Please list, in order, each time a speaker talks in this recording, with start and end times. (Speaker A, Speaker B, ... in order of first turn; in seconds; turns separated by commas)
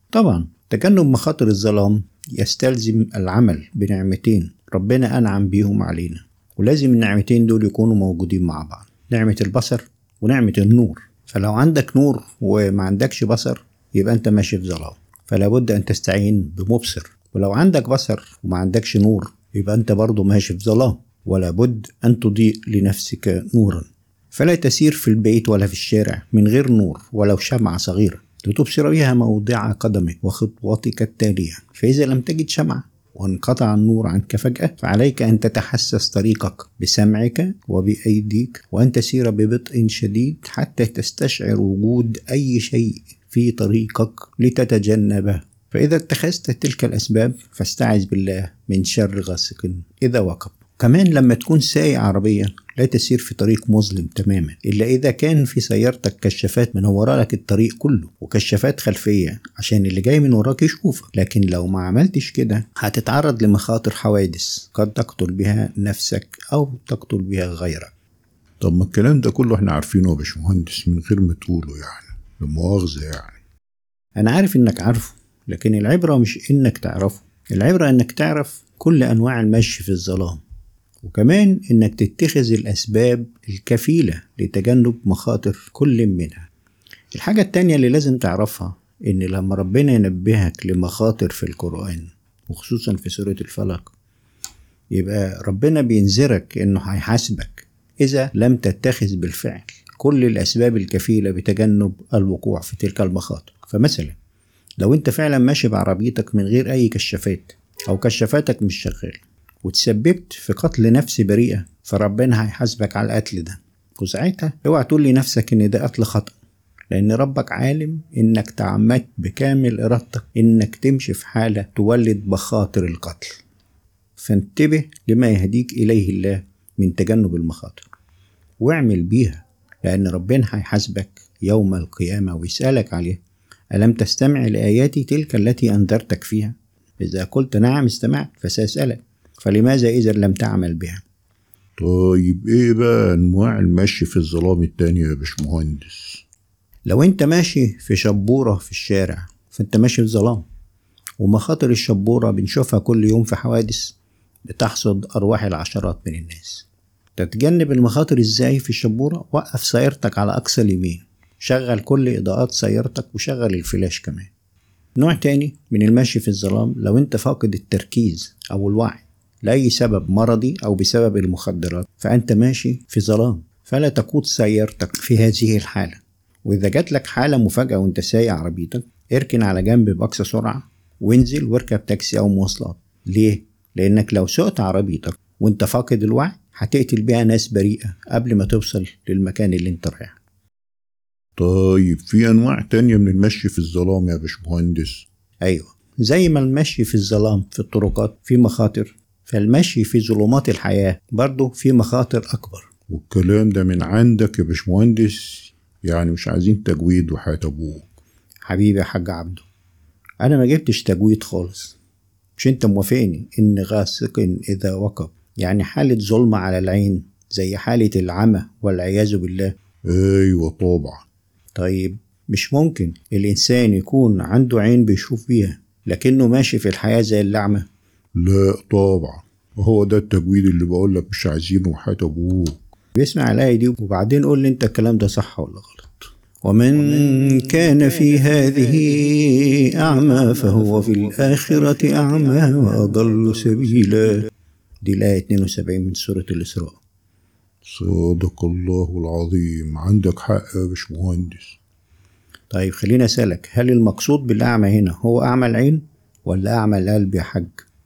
Speaker A: 0.1-67.9, Speaker B: 68.6-73.4, Speaker A: 74.2-80.4, Speaker A: 81.0-86.5, Speaker A: 87.1-93.9, Speaker A: 94.9-104.2, Speaker A: 104.8-116.3, Speaker A: 116.9-123.4, Speaker A: 124.2-127.9, Speaker A: 128.6-133.2, Speaker A: 133.7-141.0, Speaker B: 141.8-146.2, Speaker A: 146.8-150.4, Speaker A: 151.2-164.3, Speaker A: 165.0-190.2, Speaker B: 191.4-195.1, Speaker A: 195.4-202.7, Speaker B: 202.9-207.9, Speaker A: 208.5-209.4, Speaker A: 210.2-211.8, Speaker A: 212.4-219.5, Speaker B: 219.9-221.1, Speaker A: 221.5-227.7, Speaker B: 228.2-232.6, Speaker A: 232.9-244.3, Speaker A: 244.8-246.8, Speaker B: 247.6-251.6, Speaker A: 252.5-257.6